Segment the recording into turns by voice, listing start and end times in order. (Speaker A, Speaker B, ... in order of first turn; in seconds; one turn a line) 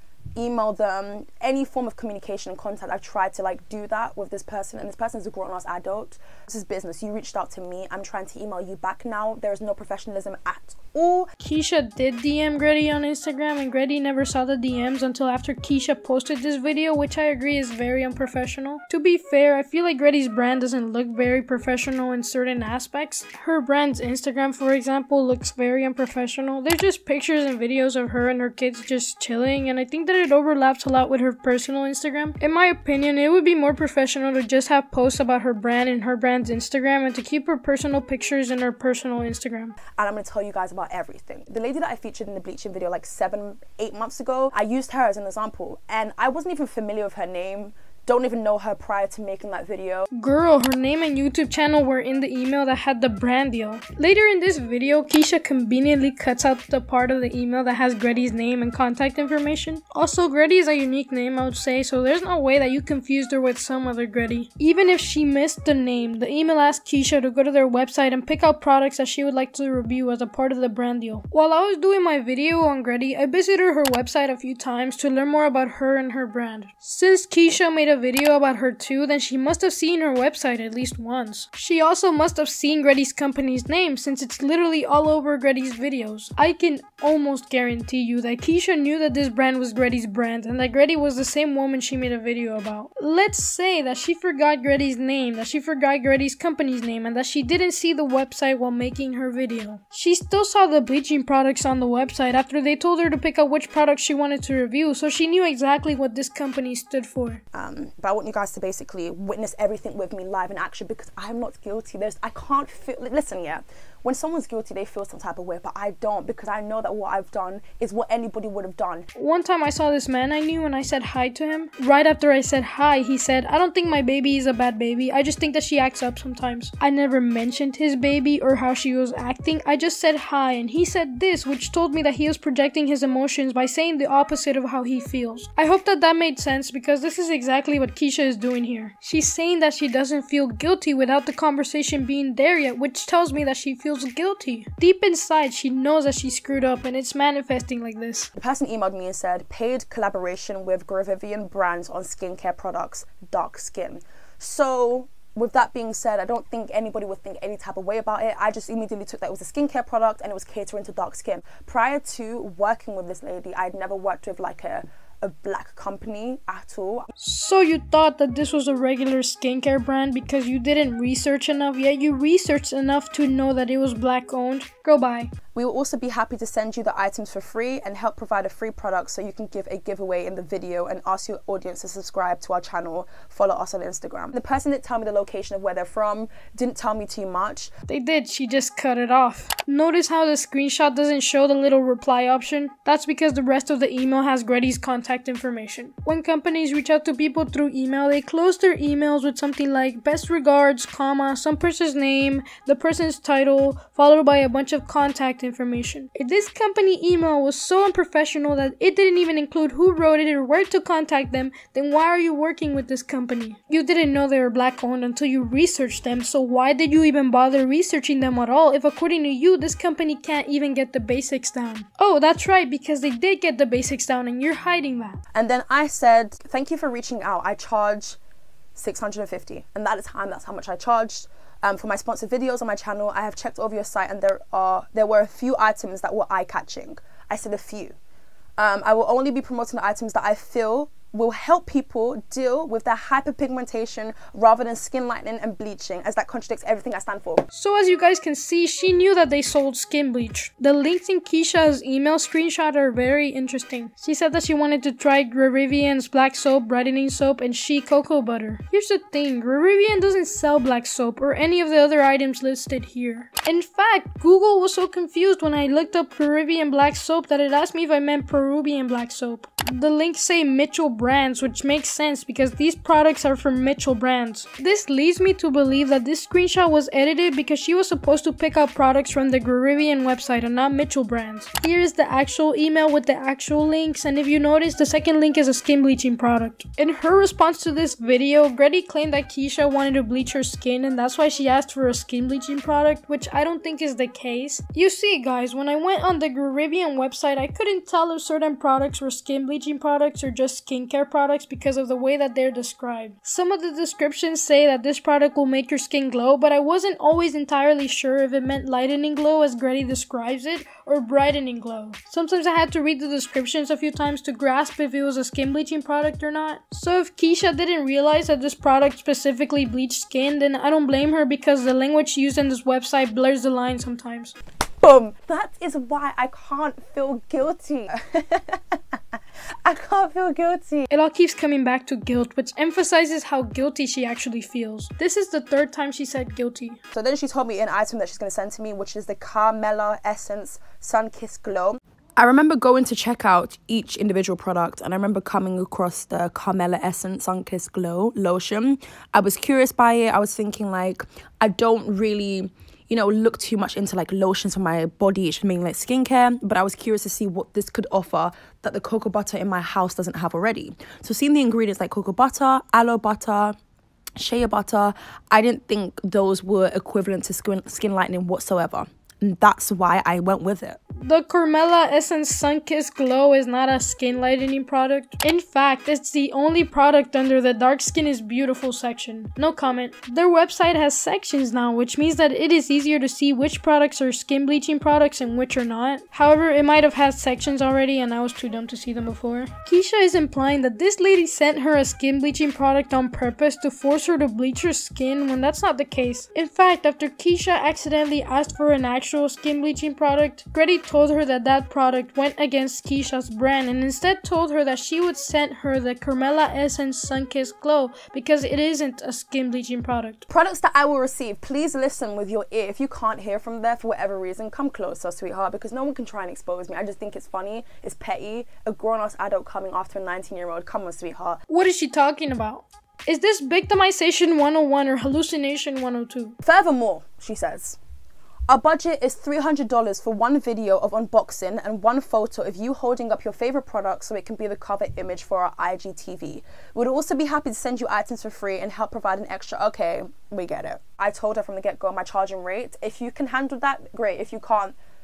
Speaker A: 0.3-11.3
Speaker B: 11.4-39.8
Speaker A: 40.0-50.1
Speaker B: 50.1-107.4
Speaker A: 107.5-119.1
Speaker B: 119.1-148.3
Speaker A: 148.4-167.1
Speaker B: 167.2-175.3
Speaker A: 175.5-187.7
Speaker B: 187.9-225.2
Speaker A: 225.3-228.2
Speaker A: 228.8-237.9
Speaker A: 238.6-247.4
Speaker B: 247.5-324.3
Speaker A: 324.8-329.0
Speaker A: 329.6-330.9
Speaker B: 330.9-336.8
Speaker A: 336.9-363.6
Speaker A: 364.2-370.8
Speaker B: 371.0-410.2
Speaker A: 410.3-421.4
Speaker B: 421.5-426.4
Speaker A: 426.4-427.8
Speaker A: 428.5-444.8